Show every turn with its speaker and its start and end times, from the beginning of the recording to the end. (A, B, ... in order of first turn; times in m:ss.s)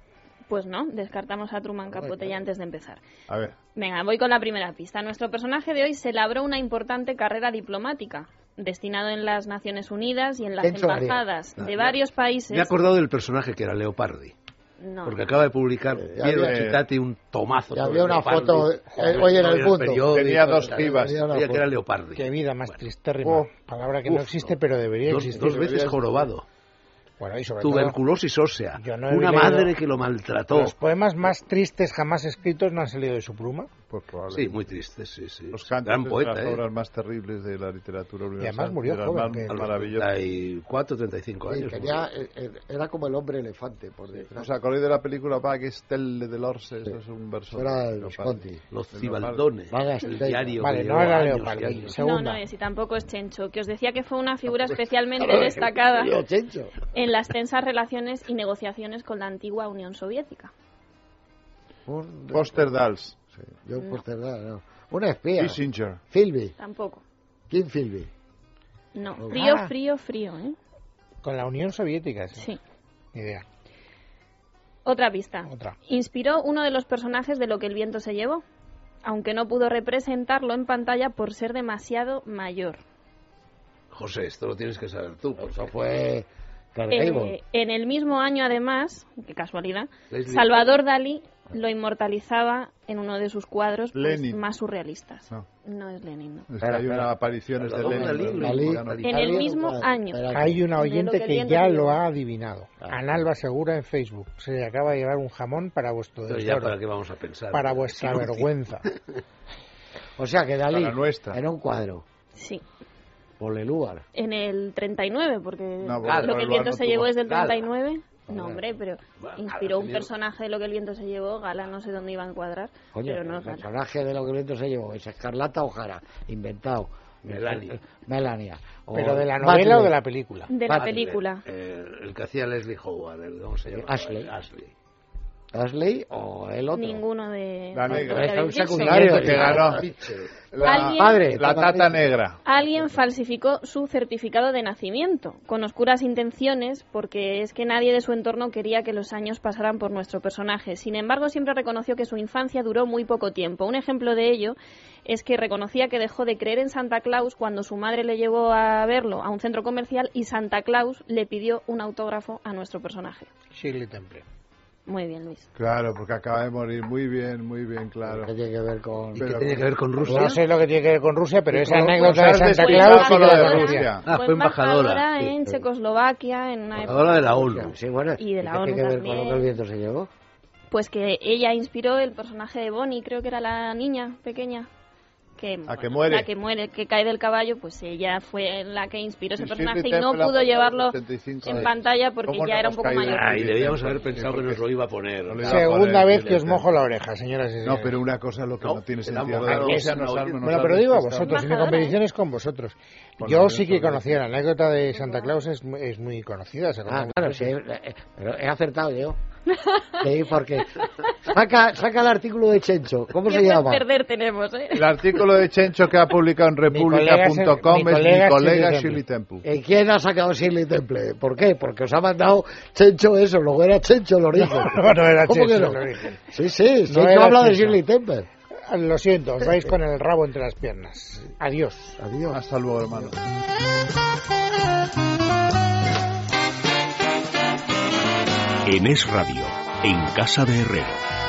0:00.5-0:03.0 A
0:01.9-0:02.4 B
0:03.3-0:03.6 C
0:03.8-0:12.7 A
0:10.6-0:11.2 B
0:11.6-0:12.0 D
0:12.5-0:14.3 D
0:14.8-0:15.2 A
0:15.0-0:22.8 D
0:16.0-0:16.6 B
0:16.3-0:16.8 C
0:17.7-0:21.6 B
0:19.0-0:19.3 E
0:19.5-0:21.2 C
0:22.2-0:25.9 E
0:23.2-0:23.5 C
0:24.1-0:24.5 D
0:25.1-0:26.5 D
0:25.3-0:26.3 C
0:27.2-0:28.0 E
0:27.6-0:30.8 D
0:28.8-0:29.7 E
0:30.5-0:33.7 E
0:33.9-0:34.7 C
0:34.3-0:36.7 D
0:35.5-0:40.1 C
0:38.4-0:39.7 E
0:39.5-0:42.1 D
0:41.5-0:44.5 B
0:44.4-0:49.5 C
0:47.5-0:48.6 B
0:48.7-0:52.0 D
0:49.7-0:50.6 B
0:50.6-0:52.4 E
0:52.0-0:56.2 A
0:55.2-0:56.8 B
0:56.9-1:00.5 A
1:01.9-1:02.8 B
1:02.3-1:03.4 C
1:03.5-1:06.6 B
1:03.8-1:04.0 A
1:05.4-1:06.0 C
1:06.6-1:07.0 A
1:07.5-1:08.1 B
1:08.9-1:10.6 A
1:09.3-1:09.7 E
1:11.2-1:12.5 E
1:13.1-1:13.4 E
1:14.9-1:18.4 A
1:15.4-1:15.8 E
1:19.0-1:22.8 A
1:23.9-1:25.7 D
1:25.5-1:27.4 B
1:26.9-1:36.5 A
1:30.1-1:30.7 D
1:33.9-1:34.4 C
1:36.5-1:39.3 C
1:36.6-1:37.1 B
1:37.6-1:39.5 D
1:37.8-1:40.6 B
1:39.0-1:40.2 A
1:40.3-1:46.8 E
1:40.8-1:42.0 A
1:46.3-1:49.0 D
1:47.5-1:48.9 E
1:50.2-1:52.0 B
1:50.7-1:51.4 C
1:52.4-1:52.6 A
1:53.4-1:54.0 B
1:54.2-2:03.7 A
1:55.8-1:57.2 C
1:56.0-1:56.6 D
1:57.2-1:57.7 D
1:58.3-1:58.6 B
1:59.2-2:00.1 D
2:02.9-2:10.0 B
2:07.2-2:07.8 D
2:08.9-2:10.5 E
2:10.5-2:11.4 A
2:10.7-2:11.1 B
2:10.9-2:14.7 D
2:13.7-2:14.3 B
2:15.5-2:17.0 B
2:16.7-2:19.7 A
2:17.7-2:19.9 C
2:17.9-2:22.1 B
2:20.5-2:22.4 C
2:20.6-2:21.2 A
2:22.4-2:43.3 A
2:43.6-2:44.2 E
2:44.9-2:45.5 A
2:45.6-2:48.3 C
2:48.1-2:49.4 B
2:49.2-2:50.4 D
2:49.2-2:50.3 C
2:50.0-2:54.0 E
2:51.5-2:52.2 B
2:51.8-2:54.1 C
2:52.4-2:57.3 A
2:54.0-2:55.4 D
2:56.8-2:57.8 D
2:57.0-3:00.1 B
2:58.2-2:59.5 A
3:00.7-3:04.7 A
3:05.4-3:13.4 A
3:05.7-3:06.3 C
3:09.4-3:14.6 C
3:13.1-3:15.7 D
3:15.3-3:16.7 C
3:15.4-3:18.0 E
3:17.6-3:21.4 C
3:18.6-3:20.8 D
3:19.5-3:27.5 E
3:21.2-3:22.0 A
3:23.2-3:24.2 C
3:24.9-3:25.3 A
3:26.9-3:29.2 B
3:29.5-3:30.1 A
3:30.0-3:33.8 B
3:30.8-3:31.1 A
3:33.2-3:35.5 A
3:34.7-3:39.4 C
3:36.7-3:39.0 E
3:39.4-3:48.3 B
3:44.4-3:46.3 E
3:46.9-3:47.8 E
3:48.7-3:52.0 E
3:52.0-3:53.1 B
3:52.3-3:53.3 C
3:58.7-4:01.0 F